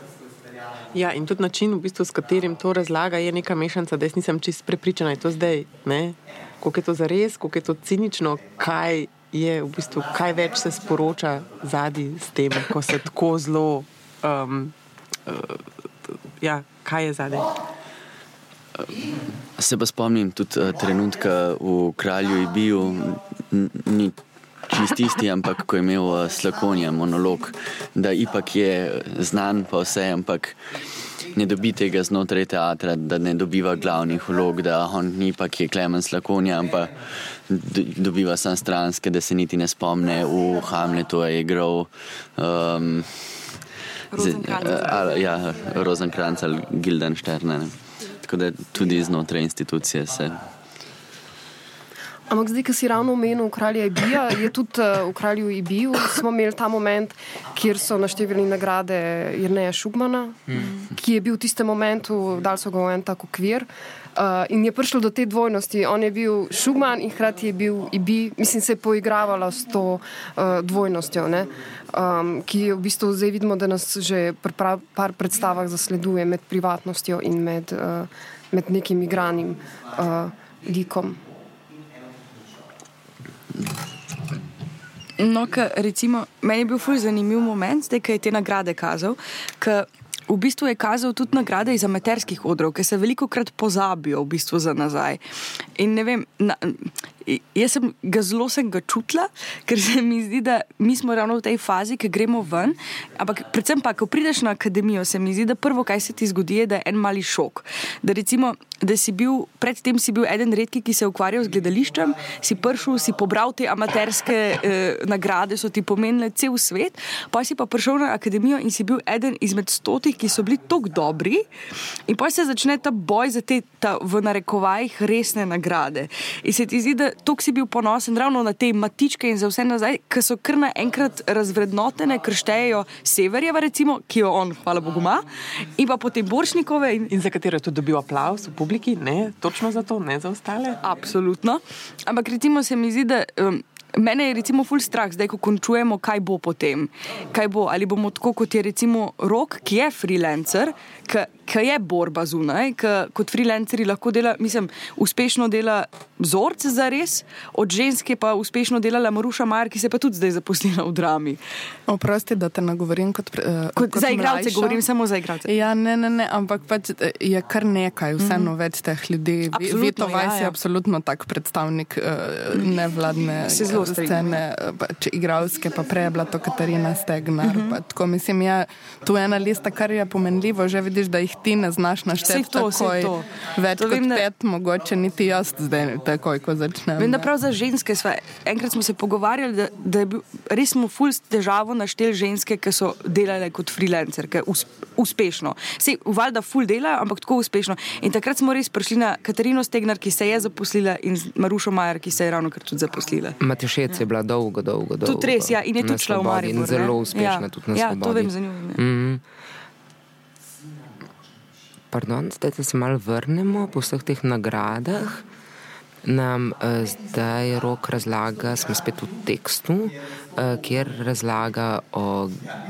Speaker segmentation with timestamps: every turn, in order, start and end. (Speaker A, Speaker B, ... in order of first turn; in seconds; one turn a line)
Speaker A: 0.9-14.8
Speaker A: 15.2-17.5
Speaker B: 19.5-30.7
Speaker B: 31.3-43.5
Speaker C: 44.1-45.2
Speaker B: 44.1-50.4
Speaker D: 52.3-81.2
Speaker C: 60.5-60.9
Speaker C: 85.2-121.5
Speaker C: 122.0-137.1
Speaker A: 137.1-140.8
Speaker C: 140.8-161.4
Speaker E: 161.9-164.8
Speaker C: 163.8-165.5
Speaker E: 165.4-187.3
Speaker C: 168.2-168.5
Speaker C: 169.5-170.6
Speaker C: 172.5-174.4
Speaker C: 177.4-177.8
Speaker C: 182.2-184.2
Speaker C: 187.0-203.4
Speaker F: 203.4-209.2
Speaker C: 205.0-208.8
Speaker F: 211.9-215.2
Speaker F: 216.0-222.5